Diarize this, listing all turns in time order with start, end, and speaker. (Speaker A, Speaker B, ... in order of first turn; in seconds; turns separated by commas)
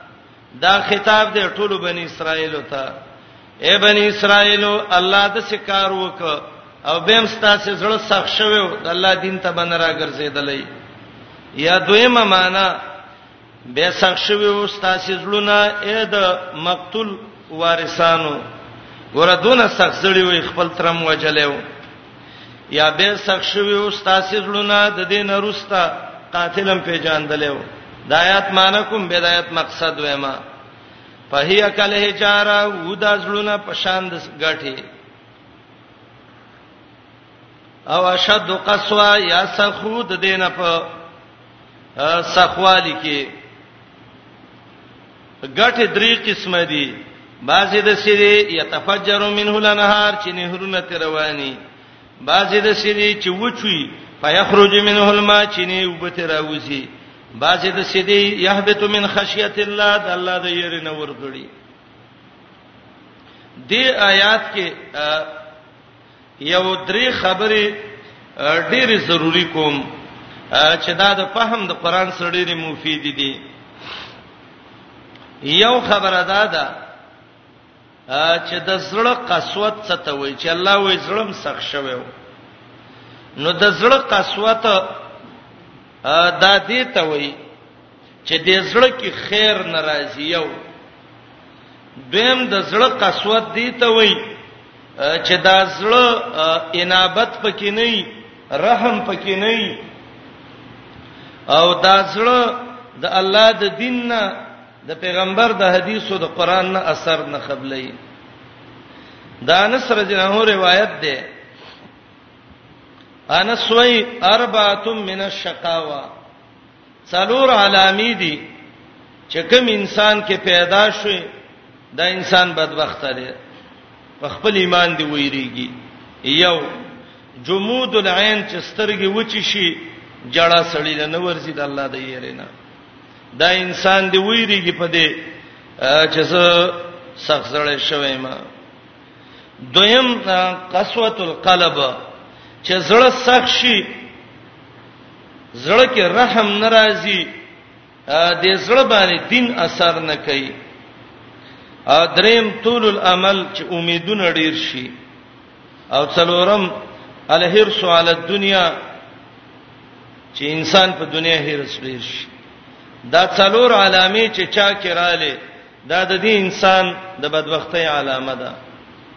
Speaker A: 0.6-2.9, Speaker A: 3.6-10.7, Speaker A: 11.6-12.7, Speaker A: 13.7-18.4, Speaker A: 19.1-21.6, Speaker A: 22.7-30.4, Speaker A: 31.3-34.8, Speaker A: 37.9-40.9, Speaker A: 42.0-43.3, Speaker A: 45.5-51.6, Speaker A: 52.2-61.5, Speaker A: 63.7-65.4, Speaker A: 66.4-67.8, Speaker A: 68.4-69.8, Speaker A: 70.5-73.4, Speaker A: 75.4-76.8, Speaker A: 78.1-82.1, Speaker A: 83.4-84.9, Speaker A: 86.0-87.4, Speaker A: 88.2-90.5, Speaker A: 92.1-94.2, Speaker A: 95.0-99.8, Speaker A: 101.5-108.0, Speaker A: 109.4-111.2, Speaker A: 113.3-116.1, Speaker A: 117.1-118.5, Speaker A: 119.3-121.2, Speaker A: 122.0-123.3, Speaker A: 124.2-125.7, Speaker A: 126.2-126.7, Speaker A: 127.5-132.5, Speaker A: 133.3-135.1, Speaker A: 135.8-138.4, Speaker A: 139.7-142.0, Speaker A: 142.6-143.9, Speaker A: 145.5-147.3, Speaker A: 148.1-150.5, Speaker A: 151.9-154.9, Speaker A: 155.9-156.7, Speaker A: 157.3-158.7, Speaker A: 160.3-162.3, Speaker A: 163.1-168.6